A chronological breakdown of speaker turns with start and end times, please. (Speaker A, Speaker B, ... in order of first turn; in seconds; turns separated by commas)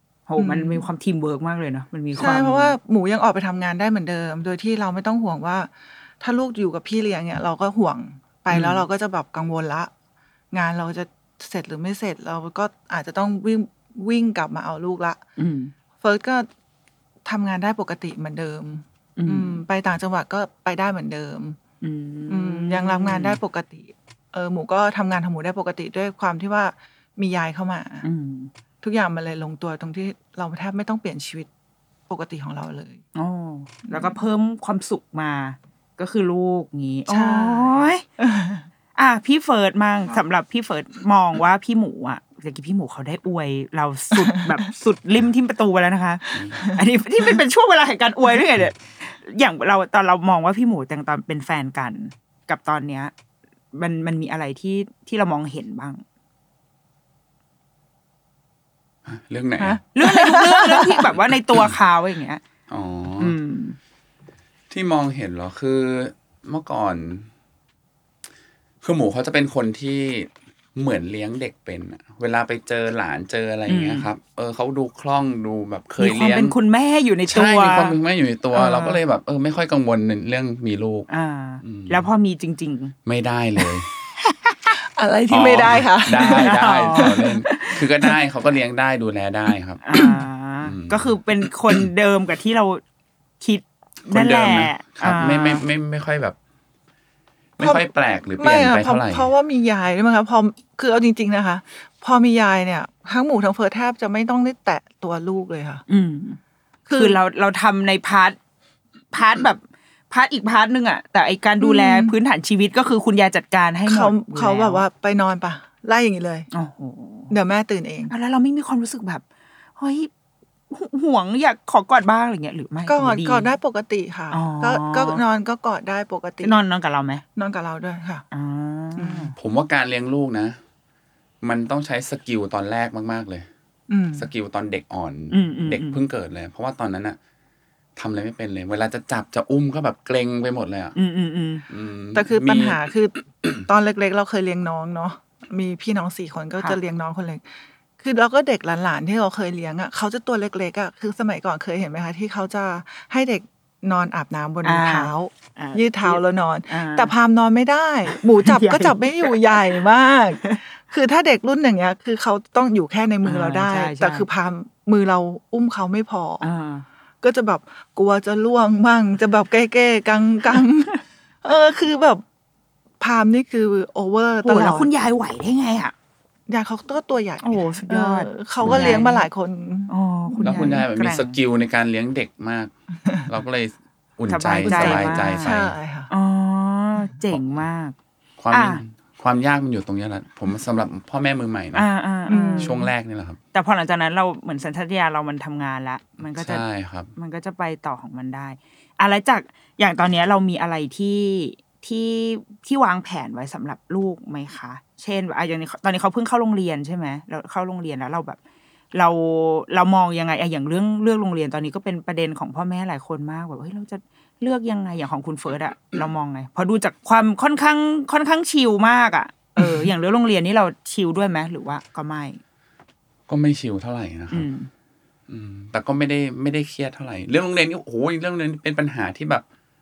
Speaker A: 0.3-2.8, Speaker B: 0.4-0.9, Speaker B: 2.1-9.9, Speaker A: 8.5-8.8, Speaker B: 10.5-15.2, Speaker A: 15.4-15.7, Speaker B: 16.0-16.5, Speaker B: 17.2-21.6, Speaker A: 19.2-19.6, Speaker A: 21.8-23.4, Speaker B: 22.3-28.1, Speaker A: 28.0-28.5, Speaker B: 28.8-31.5, Speaker B: 32.1-33.0, Speaker A: 33.1-38.0, Speaker B: 33.9-34.1, Speaker B: 37.1-38.6, Speaker A: 38.9-53.1, Speaker A: 53.7-56.0, Speaker C: 59.1-59.8, Speaker B: 59.6-61.0, Speaker A: 59.9-62.4, Speaker C: 62.7-63.4, Speaker A: 63.2-63.8, Speaker C: 64.7-67.3, Speaker C: 68.8-76.5, Speaker A: 73.7-74.1, Speaker A: 76.0-78.0, Speaker C: 77.3-81.1, Speaker A: 78.5-79.0, Speaker A: 81.1-83.0, Speaker C: 81.6-82.1, Speaker C: 83.0-83.9, Speaker A: 84.3-84.7, Speaker B: 84.8-87.1, Speaker C: 85.3-89.8, Speaker A: 86.2-87.8, Speaker A: 89.8-92.8, Speaker C: 90.6-91.2, Speaker A: 93.4-95.6, Speaker C: 94.0-96.3, Speaker C: 97.6-99.3, Speaker B: 97.6-105.8, Speaker A: 105.9-106.4, Speaker B: 106.8-107.2, Speaker A: 107.0-108.4, Speaker A: 109.1-114.8, Speaker B: 111.6-112.1, Speaker B: 113.8-116.5, Speaker A: 116.5-117.3, Speaker B: 117.3-118.1, Speaker A: 118.1-119.2, Speaker A: 119.8-120.1, Speaker A: 120.7-123.5, Speaker B: 122.8-126.6, Speaker A: 124.3-125.2, Speaker A: 126.4-127.2, Speaker B: 127.3-128.2, Speaker A: 128.3-129.3, Speaker B: 128.9-129.3, Speaker C: 129.4-130.6, Speaker C: 131.4-133.5, Speaker B: 133.9-134.3, Speaker C: 134.1-137.2, Speaker A: 135.3-136.0, Speaker C: 137.9-140.9, Speaker A: 140.9-141.6, Speaker C: 141.7-142.8, Speaker B: 142.1-147.4, Speaker B: 148.0-166.5, Speaker A: 154.6-157.1, Speaker A: 158.1-159.8, Speaker A: 163.2-164.3, Speaker A: 166.4-166.8, Speaker B: 167.2-172.2, Speaker B: 173.0-174.9, Speaker A: 174.4-175.9, Speaker B: 176.5-180.8, Speaker A: 177.4-179.3, Speaker C: 178.6-179.0, Speaker A: 179.9-181.3, Speaker C: 180.4-182.7, Speaker C: 183.2-185.7, Speaker A: 184.3-185.5, Speaker B: 184.6-186.1, Speaker A: 186.1-187.9, Speaker C: 188.4-191.9, Speaker A: 188.5-188.8, Speaker A: 191.7-192.7, Speaker B: 192.3-192.9, Speaker C: 192.6-193.4, Speaker A: 193.5-196.6, Speaker C: 196.3-197.1, Speaker A: 197.2-208.4, Speaker A: 208.9-222.4, Speaker C: 223.3-224.5, Speaker A: 224.3-224.7, Speaker C: 225.3-229.4